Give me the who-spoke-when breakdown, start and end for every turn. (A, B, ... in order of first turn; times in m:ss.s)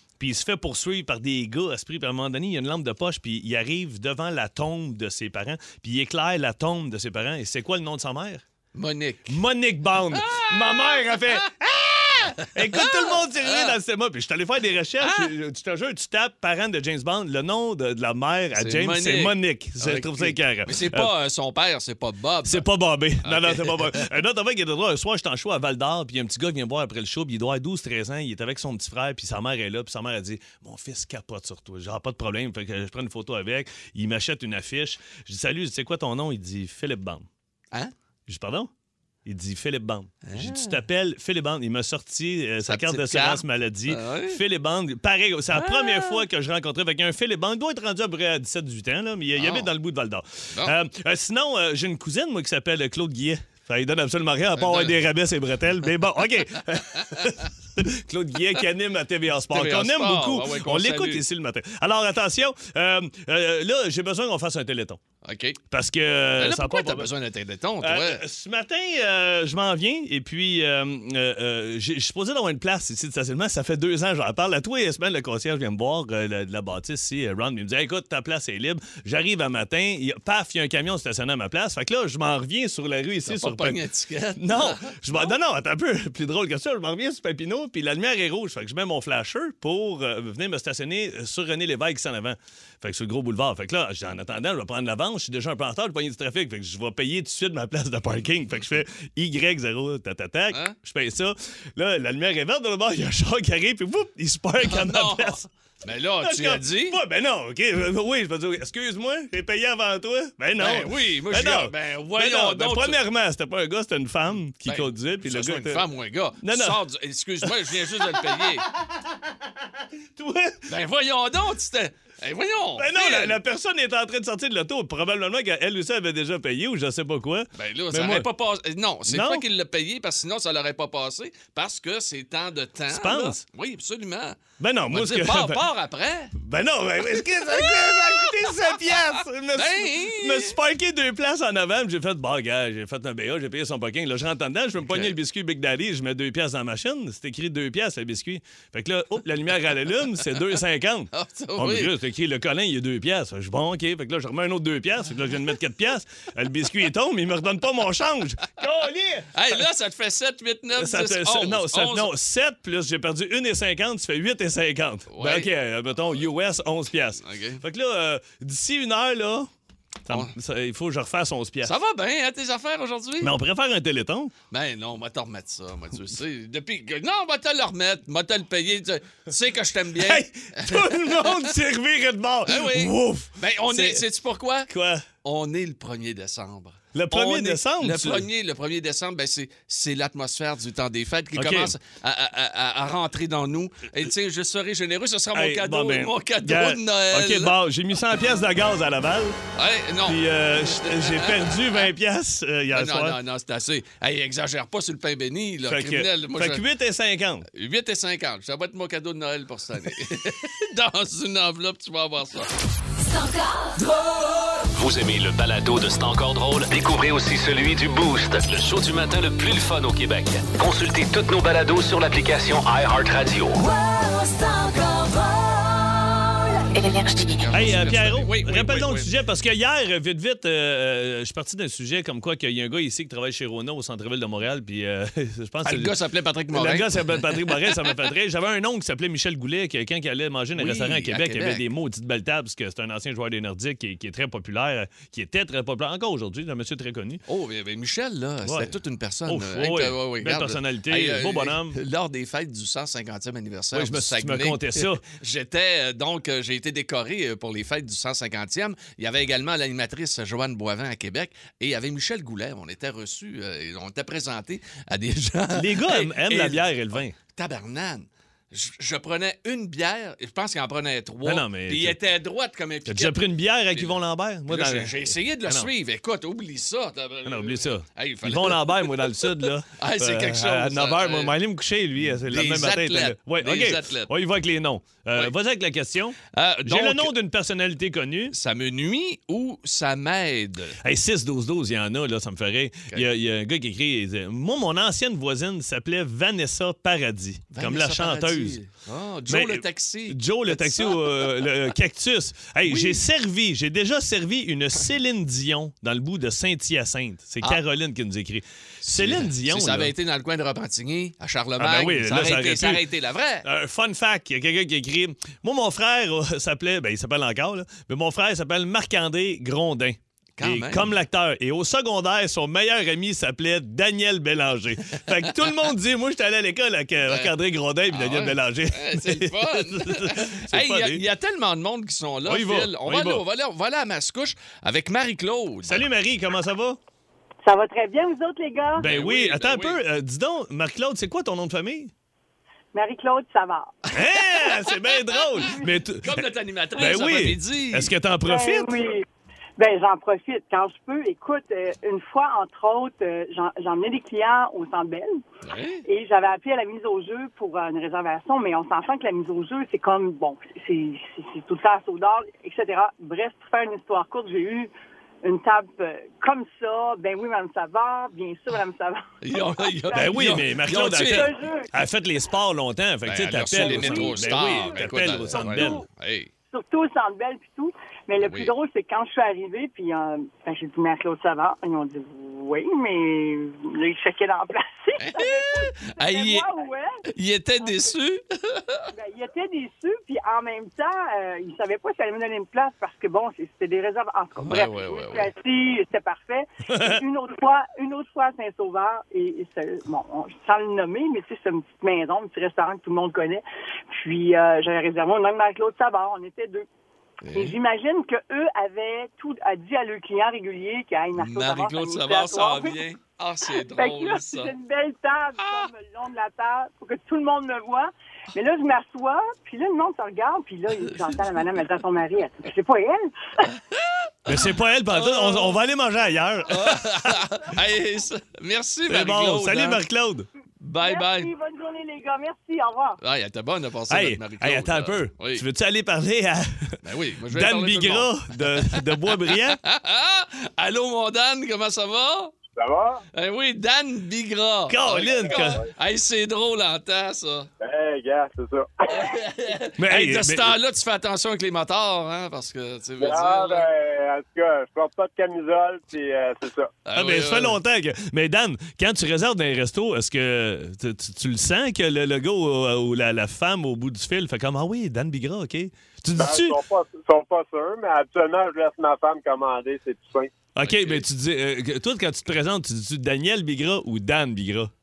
0:00.2-0:08.4 A
0:08.7-0:09.4 B
0:09.3-0:21.1 A
0:10.1-0:11.4 B
0:12.7-0:13.7 B
0:15.0-0:15.3 B
0:18.5-0:22.6 B
0:22.4-0:37.3 A
0:23.2-0:24.0 B
0:38.3-0:38.7 A
0:39.2-1:05.0 A
0:40.2-0:40.8 B
0:42.6-0:44.4 B
0:45.5-0:46.2 B
0:49.4-0:49.7 B
0:54.6-0:55.0 B
0:59.5-1:01.2 B
1:05.2-1:05.6 B
1:05.7-1:07.1 A
1:06.4-1:08.2 B
1:07.8-1:23.8 A
1:23.2-1:25.3 B
1:24.4-1:45.4 A
1:44.6-1:47.0 B
1:46.2-1:55.8 A
1:50.6-1:53.0 B
1:54.6-1:58.7 B
1:56.4-1:56.8 A
1:57.4-2:00.7 A
2:00.7-2:03.4 B
2:02.8-2:08.3 A
2:07.6-2:16.3 B
2:09.1-2:09.4 A
2:12.9-2:13.4 A
2:14.6-2:15.6 A
2:16.4-2:39.6 A
2:17.6-2:18.2 B
2:19.5-2:20.6 B
2:24.8-2:25.1 B
2:31.1-2:31.9 B
2:39.3-2:42.1 B
2:40.8-2:49.5 A
2:45.1-2:45.5 B
2:47.2-2:47.6 B
2:50.0-2:51.7 A
2:51.6-2:53.3 B
2:53.2-2:54.3 A
2:54.5-3:01.5 B
3:00.0-3:04.0 A
3:02.4-3:04.7 B
3:04.7-3:05.0 A
3:05.2-3:17.6 B
3:06.9-3:08.3 A
3:11.3-3:11.7 A
3:15.3-3:19.4 A
3:19.6-3:21.4 B
3:20.1-3:23.2 A
3:22.7-3:26.6 B
3:25.7-3:27.4 A
3:27.5-3:32.5 B
3:34.7-3:43.7 C
3:47.3-3:49.1 B
3:47.5-3:56.0 A
3:55.6-3:57.9 B
3:56.5-4:07.2 A
4:00.6-4:01.6 B
4:07.3-4:33.2 B
4:08.4-4:08.7 A
4:09.3-4:11.8 A
4:13.7-4:15.0 A
4:25.5-4:27.1 A
4:31.2-4:32.0 A
4:32.9-4:35.7 A
4:33.7-4:41.3 B
4:37.2-4:48.3 A
4:42.0-4:44.1 B
4:46.3-4:47.1 B
4:48.3-4:50.8 B
4:50.8-4:58.6 A
4:57.5-5:01.5 B
4:59.3-5:09.9 A
5:02.6-5:03.0 B
5:08.8-5:13.5 B
5:11.6-5:12.8 A
5:13.4-5:31.0 A
5:20.4-5:20.9 B
5:27.1-5:27.3 B
5:27.9-5:35.8 B
5:32.2-5:33.2 A
5:35.6-5:36.8 A
5:37.4-5:38.8 D
5:38.8-5:41.9 A
5:38.8-5:39.8 B
5:42.7-5:43.7 D
5:43.9-5:48.7 A
5:46.0-5:47.9 B
5:48.2-5:49.0 D
5:49.6-5:55.2 D
5:55.4-5:55.8 B
5:55.8-6:04.7 D
6:05.2-6:11.7 D
6:09.2-6:11.3 B
6:09.9-6:15.8 A
6:13.0-6:16.3 B
6:13.6-6:15.8 D
6:16.5-6:27.0 D
6:18.2-6:18.5 B
6:25.0-6:26.5 B
6:27.1-6:28.8 B
6:27.6-6:27.9 D
6:28.9-6:46.6 D
6:34.4-6:35.3 B
6:36.7-6:37.0 A
6:47.2-6:47.6 B
6:47.3-6:52.8 D
6:51.2-6:54.5 B
6:53.7-7:03.5 D
7:04.3-7:05.6 B
7:04.3-7:07.2 A
7:06.5-7:09.8 B
7:08.9-7:10.3 A
7:10.6-7:11.3 B
7:10.8-7:13.0 D
7:13.0-7:15.4 B
7:13.9-7:16.8 A
7:16.8-7:22.4 B
7:17.3-7:19.6 A
7:22.5-7:23.0 E
7:23.1-7:27.5 B
7:24.7-7:25.6 A
7:25.1-7:25.6 E
7:27.6-7:29.1 E
7:28.9-7:33.7 B
7:29.8-7:30.5 A
7:33.0-7:36.7 E
7:36.8-7:37.6 B
7:36.9-7:46.6 A
7:46.2-7:50.3 E
7:50.6-7:54.7 A
7:50.6-7:51.0 B